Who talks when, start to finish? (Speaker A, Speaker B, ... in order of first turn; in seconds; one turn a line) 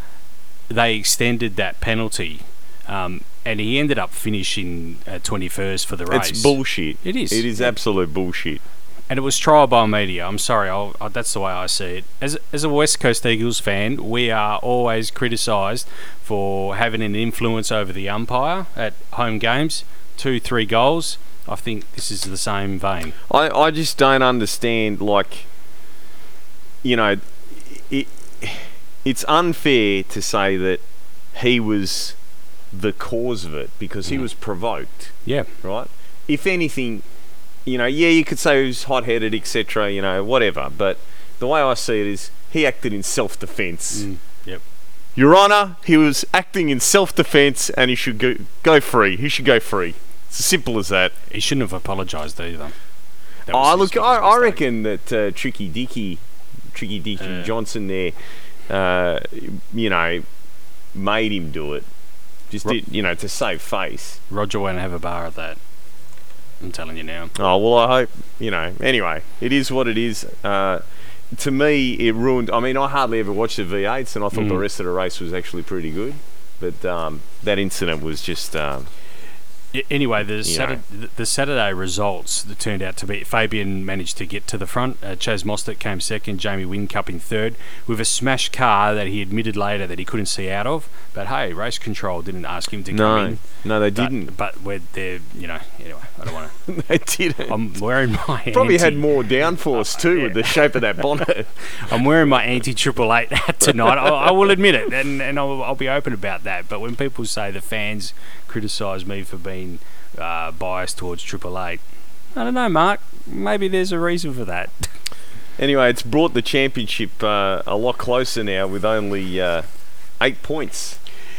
Speaker A: 0.7-7.7
Speaker B: 6.1-8.6
Speaker A: 9.1-23.2
Speaker B: 23.3-25.5
Speaker B: 26.8-32.2
Speaker B: 32.7-37.0
Speaker A: 35.2-35.5
Speaker B: 37.7-44.1
Speaker A: 43.9-44.6
Speaker B: 45.2-51.1
Speaker A: 51.3-52.8
Speaker A: 53.5-54.6
Speaker B: 53.5-58.2
Speaker A: 57.2-57.5
Speaker B: 58.7-60.3
Speaker B: 60.9-61.9
Speaker B: 62.5-64.2
Speaker A: 64.3-65.6
Speaker A: 66.6-67.3
Speaker B: 67.4-78.9
Speaker A: 74.3-74.6
Speaker A: 79.7-96.6
Speaker B: 80.4-80.8
Speaker B: 92.9-94.3
Speaker B: 96.7-97.6
Speaker A: 97.5-100.5
Speaker B: 98.5-101.9
Speaker A: 101.7-111.8
Speaker B: 103.7-104.3
Speaker A: 112.3-114.9
Speaker B: 115.6-119.7
Speaker B: 120.2-121.0